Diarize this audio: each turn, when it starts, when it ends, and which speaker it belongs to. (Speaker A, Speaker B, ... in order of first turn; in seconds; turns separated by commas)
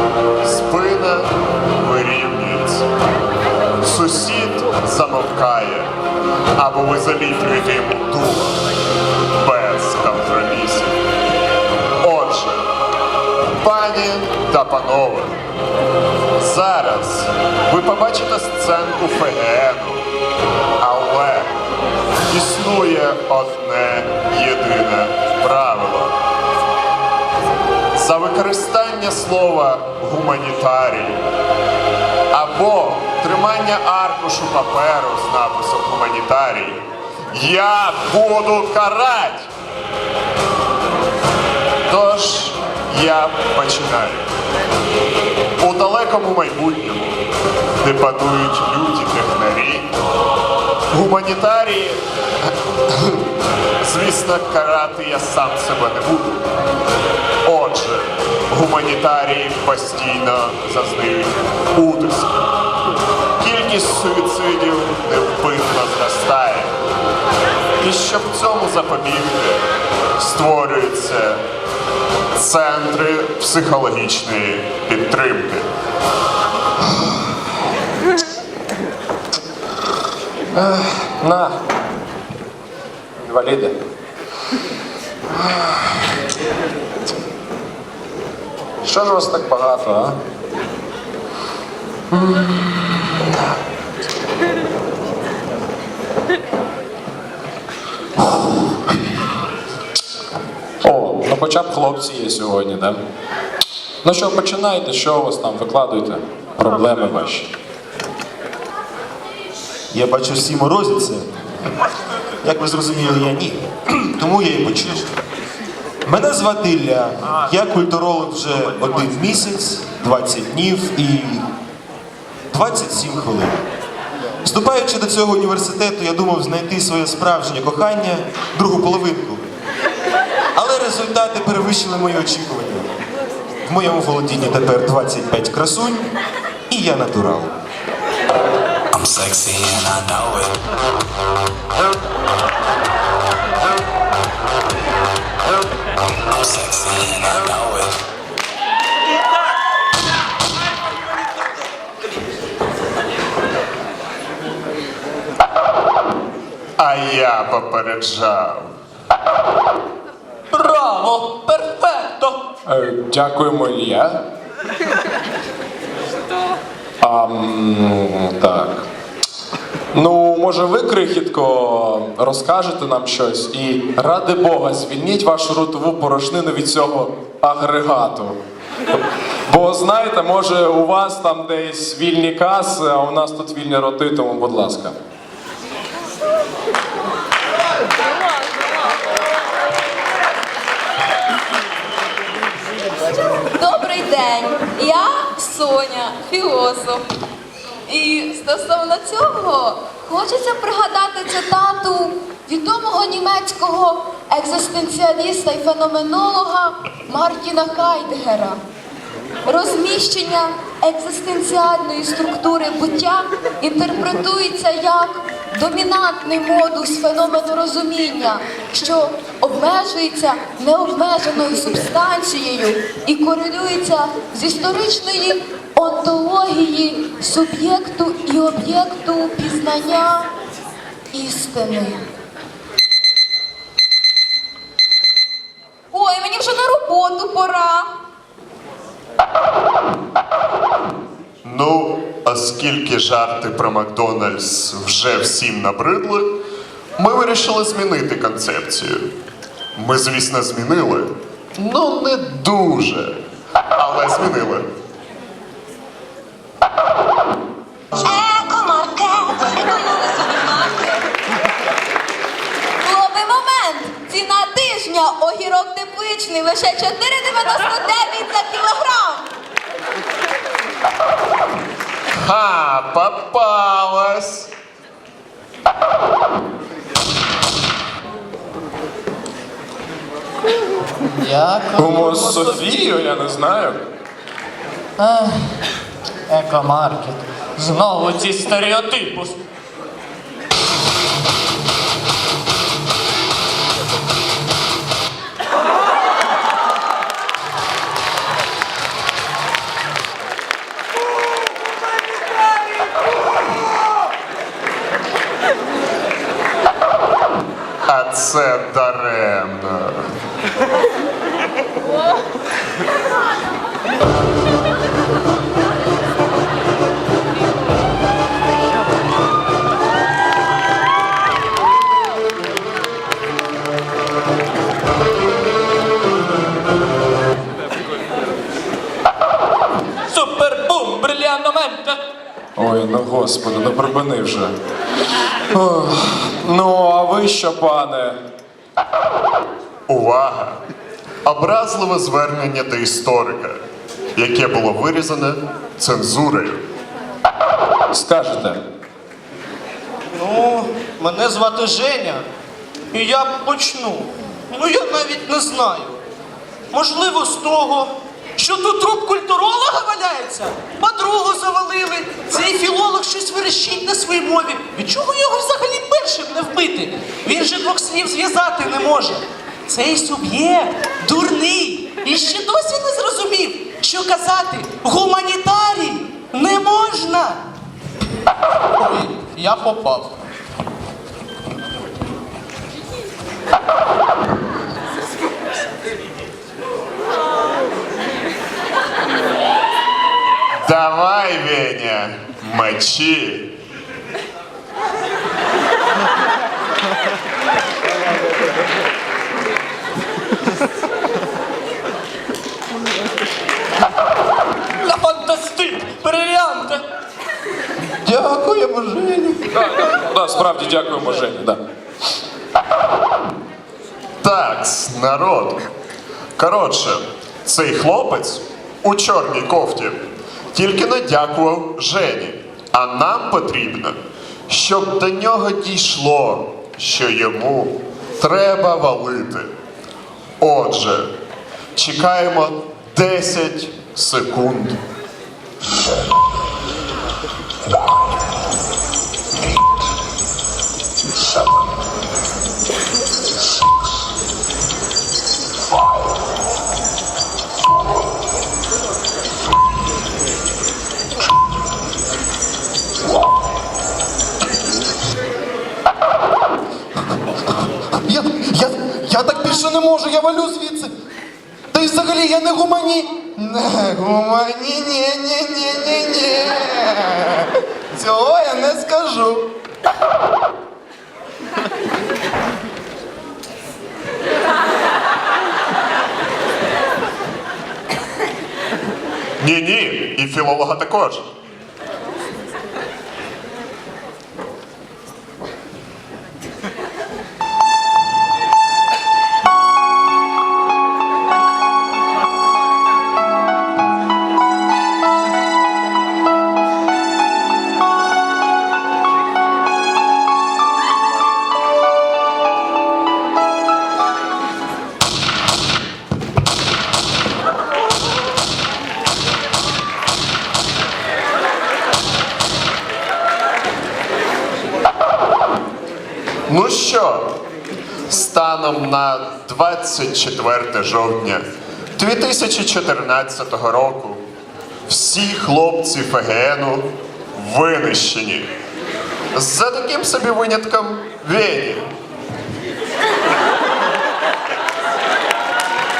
Speaker A: 0.4-2.9, Speaker A: 3.8-5.9, Speaker A: 6.5-8.6, Speaker A: 9.4-11.0, Speaker A: 12.0-12.7, Speaker A: 13.6-15.4, Speaker A: 16.4-20.1, Speaker A: 20.8-21.5, Speaker A: 22.3-26.1, Speaker A: 27.9-31.2, Speaker A: 32.3-39.5, Speaker A: 41.9-44.3, Speaker A: 45.6-47.2, Speaker A: 47.8-49.9, Speaker A: 50.9-52.0, Speaker A: 52.9-53.2, Speaker A: 53.8-56.4, Speaker A: 57.4-62.5, Speaker A: 63.4-66.8, Speaker A: 67.8-69.6, Speaker A: 70.2-71.5, Speaker A: 72.3-75.7, Speaker B: 80.5-81.5, Speaker B: 83.2-83.7, Speaker B: 85.3-86.0, Speaker B: 88.8-90.2, Speaker B: 92.1-93.3, Speaker B: 100.8-103.0, Speaker B: 104.0-107.5, Speaker C: 109.9-111.2, Speaker C: 112.4-115.1, Speaker C: 116.0-121.4, Speaker C: 122.5-123.6, Speaker C: 124.4-129.4, Speaker C: 130.5-132.9, Speaker C: 133.6-136.1, Speaker C: 136.7-137.5, Speaker D: 138.9-140.5, Speaker D: 146.4-148.0, Speaker A: 156.8-158.7, Speaker E: 160.6-162.4, Speaker B: 162.7-164.2, Speaker B: 167.0-168.8, Speaker B: 169.9-178.4, Speaker B: 179.5-184.9, Speaker F: 193.4-197.1, Speaker F: 197.9-208.6, Speaker F: 209.4-230.3, Speaker F: 231.1-232.0, Speaker F: 235.9-237.9, Speaker A: 241.4-246.3, Speaker A: 247.0-249.1, Speaker A: 249.8-253.2, Speaker A: 253.8-254.7, Speaker F: 258.0-261.0, Speaker F: 262.8-269.3, Speaker A: 272.2-274.5, Speaker E: 281.2-282.6, Speaker B: 281.7-283.8, Speaker E: 285.0-285.5, Speaker E: 286.3-289.4, Speaker A: 307.9-310.1, Speaker E: 330.1-332.0, Speaker B: 332.6-334.5, Speaker B: 335.5-338.2, Speaker A: 339.9-340.6, Speaker A: 341.2-343.6, Speaker A: 344.1-346.6, Speaker B: 347.9-348.6, Speaker G: 350.2-352.3, Speaker G: 352.9-356.0, Speaker G: 356.7-377.4, Speaker G: 378.8-380.1, Speaker A: 390.6-393.6, Speaker E: 405.1-406.8, Speaker C: 408.0-409.4, Speaker B: 409.6-411.6, Speaker A: 414.2-415.6, Speaker A: 416.4-424.0, Speaker A: 424.5-429.5, Speaker A: 430.4-431.1, Speaker A: 431.8-434.8, Speaker C: 458.1-460.9, Speaker C: 461.7-469.4, Speaker A: 479.4-481.2, Speaker A: 516.5-517.3, Speaker A: 518.1-524.2, Speaker A: 524.9-528.5, Speaker A: 529.3-531.9